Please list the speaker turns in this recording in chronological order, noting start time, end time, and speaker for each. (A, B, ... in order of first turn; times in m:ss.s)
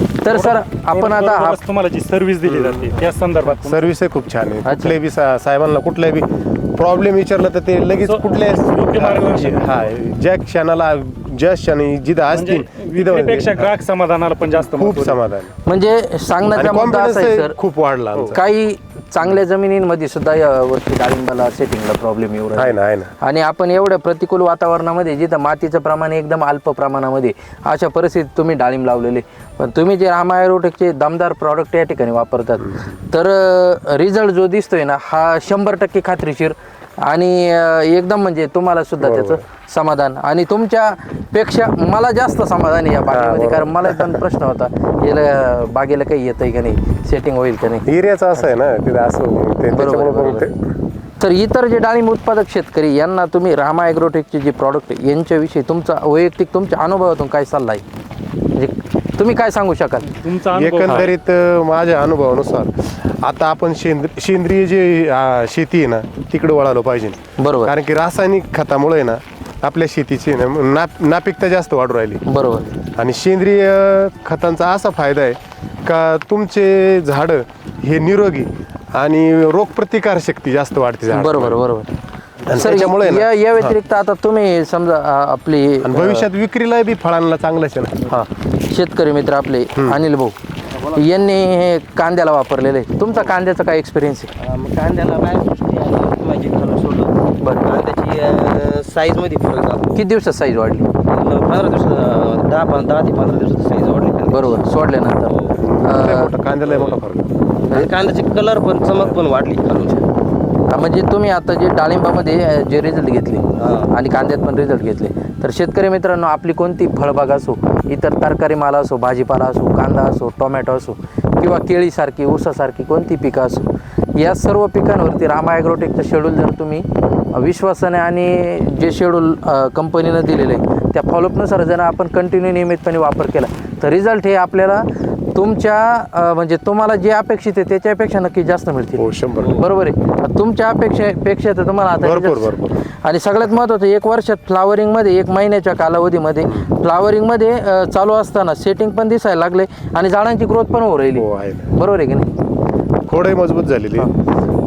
0:00.2-0:01.6 A
0:00.3-0:03.8 B
0:02.4-0:03.0 C
0:03.6-0:13.7 C
0:04.6-0:05.0 A
0:08.0-0:09.9 B
0:12.4-0:15.2 B
0:14.6-0:15.5 C
0:15.6-0:17.6 A
0:16.5-0:18.4 C
0:18.3-0:47.9 A
0:22.6-0:23.1 C
0:39.0-0:39.4 C
0:43.1-0:44.2 C
0:47.9-0:50.6 C
0:49.7-0:50.5 A
0:51.2-0:57.8 A
0:58.5-1:00.2 A
1:00.1-1:01.1 B
1:00.5-1:12.2 C
1:07.4-1:07.8 A
1:12.3-1:12.7 A
1:13.0-1:21.6 C
1:21.1-1:21.9 A
1:22.5-1:23.8 C
1:22.5-1:26.3 A
1:25.8-1:28.3 C
1:28.1-1:34.3 A
1:29.8-1:30.0 C
1:34.4-1:39.9 D
1:37.4-1:37.8 A
1:39.9-1:40.9 A
1:41.0-1:44.6 D
1:44.3-1:46.4 A
1:45.3-1:45.6 D
1:45.6-1:47.3 C
1:46.6-1:47.0 D
1:47.7-1:50.0 D
1:50.7-2:32.3 A
1:53.6-1:53.9 D
2:19.0-2:19.6 C
2:22.0-2:22.8 C
2:31.2-2:31.7 C
2:33.1-2:34.1 C